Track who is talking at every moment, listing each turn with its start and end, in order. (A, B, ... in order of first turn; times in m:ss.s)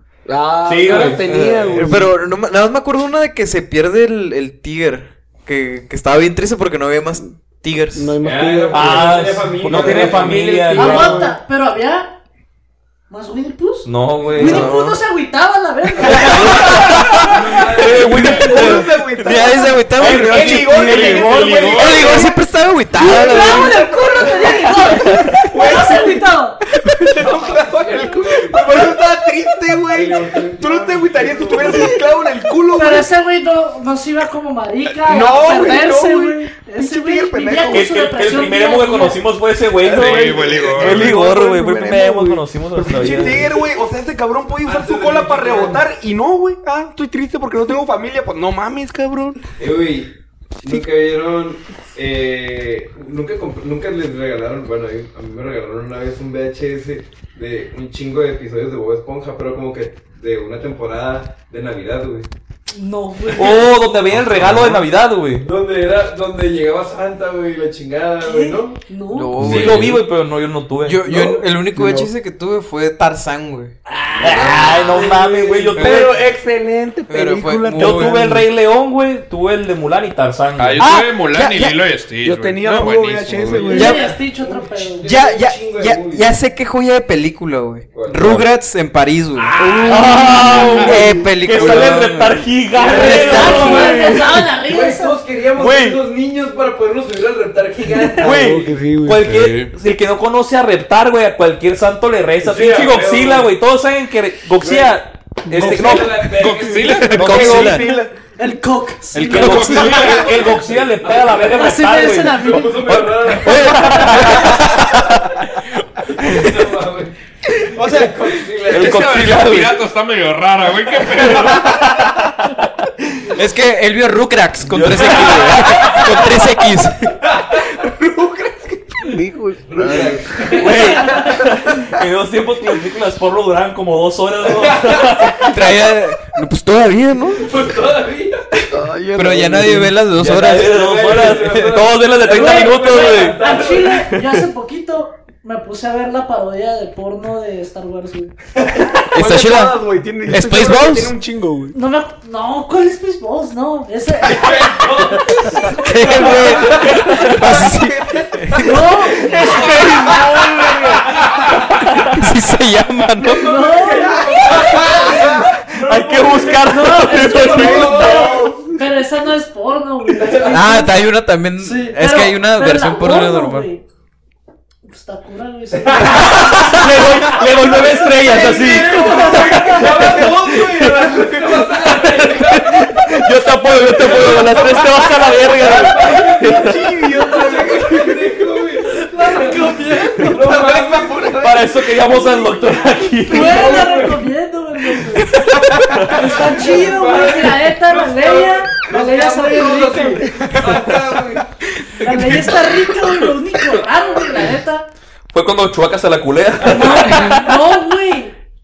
0:00.2-0:02.1 A
0:00.6-0:01.2 B
0:00.8-0:02.0 C
0:01.2-0:08.2 D
0:07.9-0:11.3 A
0:08.2-0:11.2 C
0:08.7-0:11.3 B
0:10.7-0:12.1 E
0:13.1-0:17.1 E
0:13.8-0:14.7 B
0:14.2-0:14.5 C
0:14.4-0:15.0 D
0:16.0-0:19.3 B
0:16.2-0:16.8 D
0:17.0-0:18.7 C
0:18.1-0:22.3 A
0:18.5-0:24.0 D
0:19.9-0:22.3 B
0:20.9-0:22.3 F
0:23.0-0:26.6 E
0:23.1-0:26.2 A
0:26.8-0:33.1 A
0:27.2-0:29.0 C
0:29.8-0:32.0 C
0:32.7-0:39.2 E
0:35.0-0:37.9 A
0:37.7-0:43.5 B
0:39.8-0:49.4 A
0:39.9-0:41.2 F
0:44.6-0:45.8 C
0:49.6-1:02.3 C
1:02.7-1:03.7 E
1:03.3-1:05.5 B
1:05.4-1:08.8 C
1:08.2-1:09.4 E
1:09.1-1:10.0 D
1:09.4-1:11.1 B
1:09.4-1:09.9 F
1:10.8-1:13.7 D
1:11.1-1:11.9 C
1:11.7-1:12.1 A
1:14.1-1:15.7 C
1:14.2-1:16.2 B
1:15.7-1:18.4 A
1:17.1-1:18.3 D
1:17.7-1:20.8 B
1:20.6-1:23.7 F
1:20.8-1:21.8 D
1:22.2-1:24.0 A
1:23.6-1:26.3 C
1:23.6-1:25.1 E
1:23.7-1:24.0 D
1:25.0-1:34.2 D
1:27.9-1:28.4 C
1:29.4-1:30.6 C
1:29.6-1:31.2 A
1:29.8-1:34.4 B
1:32.8-1:38.7 C
1:32.9-1:35.2 E
1:35.6-1:36.0 B
1:38.2-1:39.3 A
1:38.2-1:46.4 B
1:39.2-1:39.7 F
1:42.4-1:43.5 C
1:44.6-1:47.1 C
1:46.3-1:47.5 F
1:46.9-1:48.0 D
1:47.0-1:47.8 B
1:47.1-1:48.1 A
1:48.4-1:50.3 E
1:49.1-1:55.0 B
1:49.2-1:50.4 F
1:49.8-1:55.0 C
1:51.5-1:53.9 E
1:54.0-1:55.0 D
1:56.1-1:57.1 C
1:57.7-1:58.4 D
1:57.8-1:59.1 C
1:58.7-1:59.8 B
1:58.7-2:01.8 F
2:01.3-2:02.7 B
2:03.3-2:07.2 D
2:04.7-2:06.5 B
2:07.2-2:07.6 C
2:07.7-2:10.2 A
2:09.6-2:11.3 C
2:09.8-2:10.2 D
2:10.4-2:15.8 B
2:14.5-2:15.2 C
2:15.4-2:17.5 D
2:17.3-2:18.6 C
2:18.7-2:21.3 D
2:18.7-2:20.0 A
2:20.1-2:23.4 B
2:20.2-2:24.0 C
2:22.2-2:28.3 E
2:23.9-2:24.4 B
2:29.1-2:31.7 A
2:29.1-2:31.1 D
2:31.7-2:36.8 E
2:34.4-2:35.6 C
2:35.7-2:40.2 D
2:36.2-2:39.0 A
2:36.2-2:37.1 C
2:36.6-2:37.4 B
2:38.6-2:40.0 E
2:39.2-2:41.5 C
2:39.3-2:42.2 B
2:42.1-2:43.6 D
2:43.2-2:48.5 C
2:43.3-2:45.3 E
2:43.8-2:45.3 A
2:45.7-2:48.3 B
2:46.1-2:51.0 E
2:47.4-2:48.8 A
2:50.2-2:50.7 C
2:50.5-2:53.7 D
2:51.6-2:53.8 E
2:54.8-2:59.9 E
2:55.8-2:56.4 C
2:56.0-3:06.8 B
2:58.3-3:03.0 C
2:58.3-2:59.2 A
3:03.8-3:11.4 C
3:04.4-3:04.8 A
3:05.8-3:08.3 A
3:09.0-3:10.5 E
3:10.2-3:12.6 A
3:11.4-3:14.0 B
3:13.2-3:15.4 E
3:13.3-3:14.2 C
3:15.9-3:16.4 B
3:16.1-3:21.4 C
3:16.1-3:20.3 E
3:18.9-3:21.4 A
3:22.0-3:24.9 E
3:25.3-3:27.6 B
3:26.6-3:28.3 E